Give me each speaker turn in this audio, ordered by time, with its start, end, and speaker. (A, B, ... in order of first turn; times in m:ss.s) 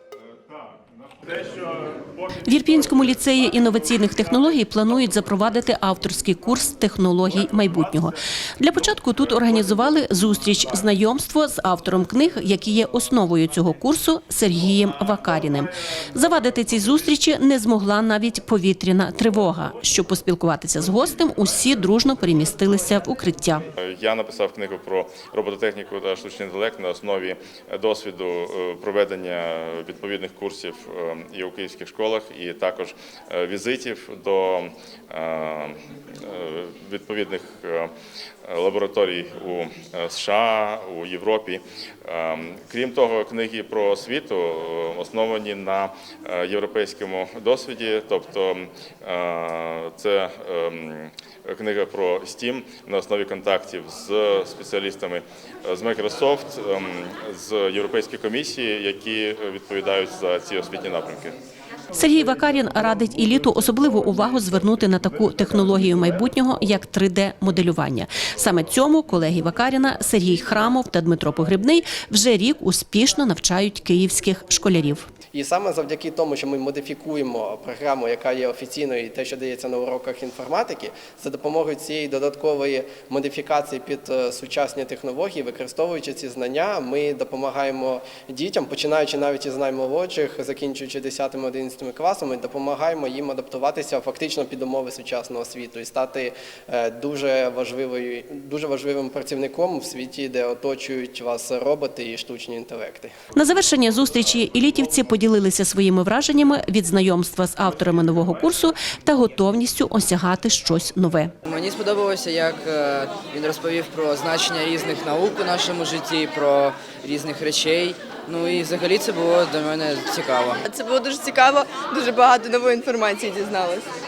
0:02.4-0:23.6 A
0:23.8-0:37.9 B
0:38.4-1:01.4 B
1:01.9-1:15.1 A
1:15.3-1:43.2 C
1:43.4-1:51.3 A
1:51.5-2:00.6 D
2:00.7-2:03.9 E